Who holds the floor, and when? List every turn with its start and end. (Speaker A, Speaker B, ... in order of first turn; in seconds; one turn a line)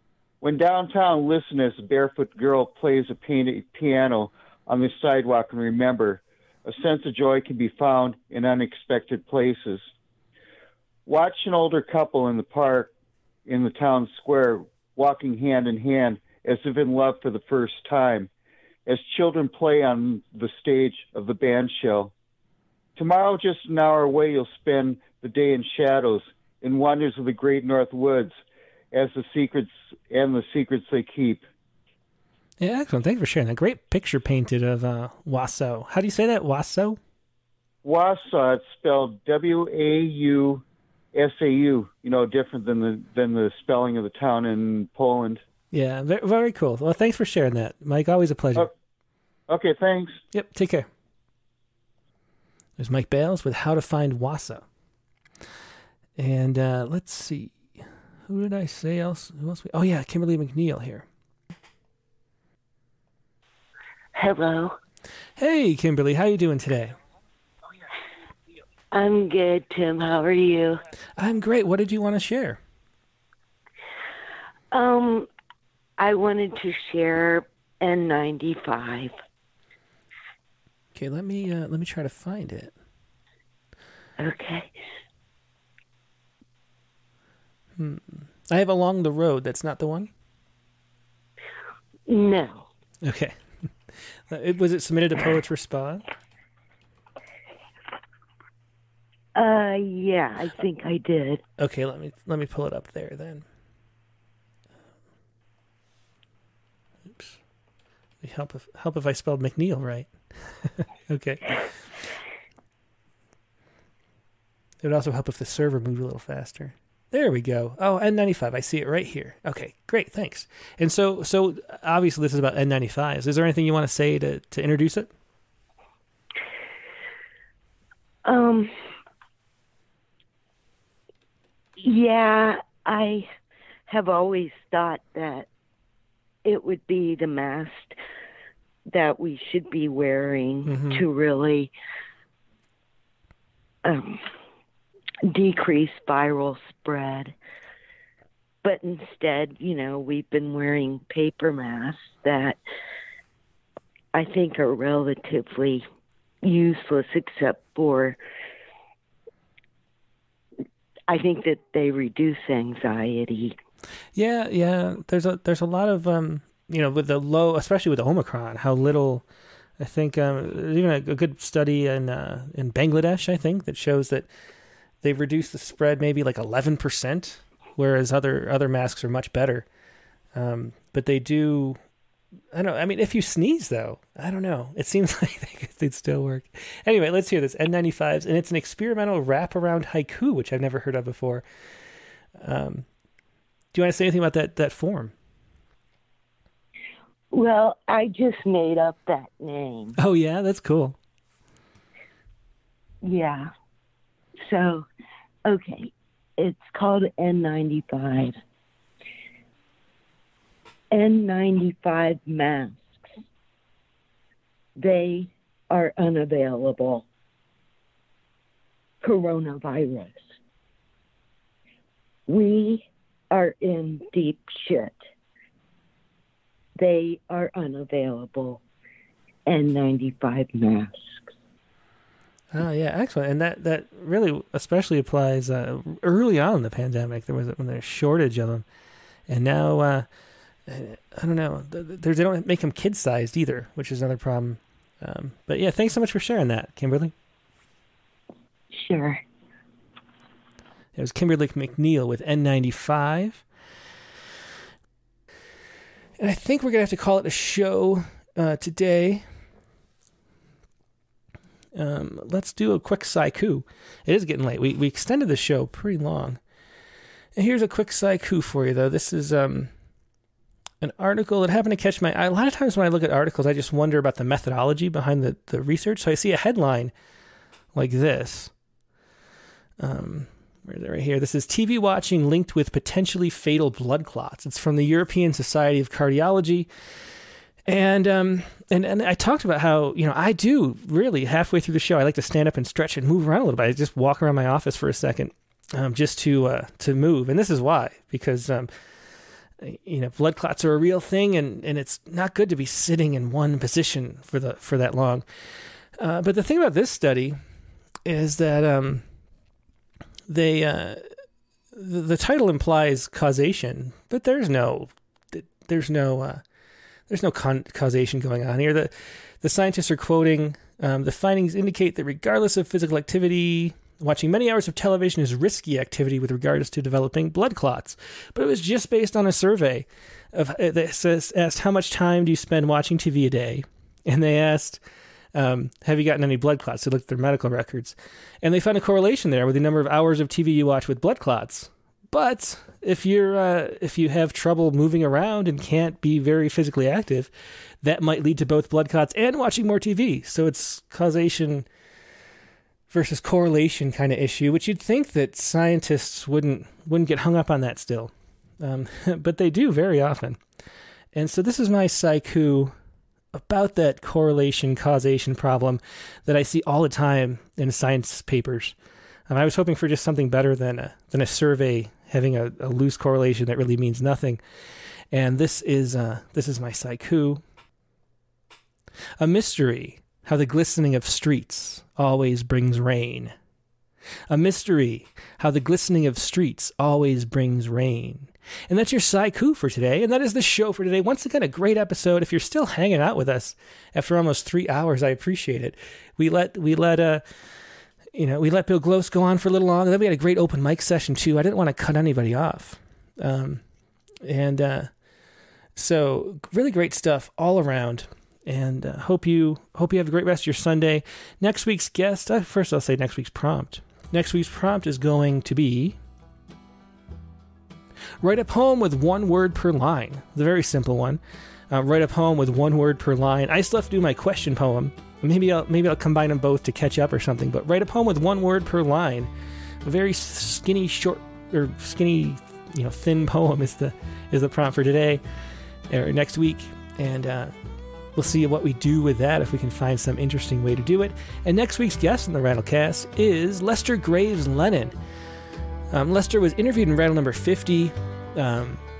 Speaker A: 0.4-9.8
Speaker A: 11.1-12.9
Speaker A: 13.4-18.3
Speaker A: 18.9-22.1
Speaker A: 22.9-28.3
Speaker A: 28.9-31.4
Speaker B: 32.6-37.0
Speaker A: 37.8-40.6
Speaker A: 41.1-45.4
Speaker B: 45.7-48.7
Speaker A: 49.5-50.2
Speaker B: 50.3-50.9
Speaker B: 52.8-54.6
Speaker B: 56.2-61.0
Speaker C: 64.1-64.8
Speaker B: 65.4-67.0
Speaker C: 68.9-70.8
Speaker B: 71.2-72.6
Speaker C: 74.7-75.3
Speaker C: 76.0-79.1
Speaker B: 80.9-82.7
Speaker C: 84.2-84.7
Speaker B: 87.8-90.1
Speaker C: 92.1-92.7
Speaker B: 93.0-93.4
Speaker B: 94.3-96.0
Speaker C: 99.3-101.4
Speaker B: 101.6-103.4
Speaker B: 108.2-111.6
Speaker B: 114.8-125.1
Speaker C: 128.2-128.7
Speaker C: 131.8-133.3
Speaker C: 133.9-135.5
Speaker C: 136.4-137.9
Speaker C: 138.9-141.7
Speaker B: 140.7-141.0
Speaker C: 143.8-144.2
Speaker C: 145.3-147.3
Speaker C: 148.6-152.6
Speaker C: 154.1-155.8
Speaker C: 156.4-158.2
Speaker C: 161.1-163.6
Speaker B: 164.2-169.2
Speaker B: 169.8-174.3
Speaker B: 175.0-179.7
Speaker B: 180.3-181.8
Speaker B: 182.5-191.4
Speaker B: 192.4-192.8
Speaker B: 193.7-195.1
Speaker C: 197.3-199.9
Speaker B: 200.0-200.9
Speaker C: 203.0-203.5
Speaker C: 204.4-204.9
Speaker C: 205.4-208.4
Speaker C: 210.9-213.0
Speaker C: 214.8-217.1
Speaker C: 219.0-220.2
Speaker C: 222.3-225.0
Speaker C: 226.8-228.6
Speaker C: 229.4-231.2
Speaker B: 232.5-238.6
Speaker B: 239.3-240.1
Speaker B: 240.7-247.1
Speaker C: 248.7-249.2
Speaker B: 250.9-253.4
Speaker B: 256.2-259.2
Speaker B: 261.7-266.4
Speaker B: 267.4-269.7
Speaker B: 270.8-276.9
Speaker B: 277.7-278.5
Speaker B: 279.8-286.7
Speaker B: 287.6-298.7
Speaker B: 299.6-305.2
Speaker B: 306.0-307.4
Speaker B: 308.0-309.0
Speaker B: 310.3-311.1
Speaker B: 311.7-316.4
Speaker B: 317.1-334.8
Speaker B: 335.3-347.3
Speaker B: 347.8-351.6
Speaker B: 352.9-360.4
Speaker B: 361.1-362.7
Speaker B: 363.3-368.8
Speaker B: 369.3-374.4
Speaker B: 375.1-377.4
Speaker B: 379.2-383.3
Speaker B: 384.3-397.2
Speaker B: 398.1-403.6
Speaker B: 404.2-404.9
Speaker B: 405.7-416.0
Speaker B: 418.2-429.3
Speaker B: 429.8-435.2
Speaker B: 435.9-437.5
Speaker B: 438.1-444.9
Speaker B: 445.9-448.8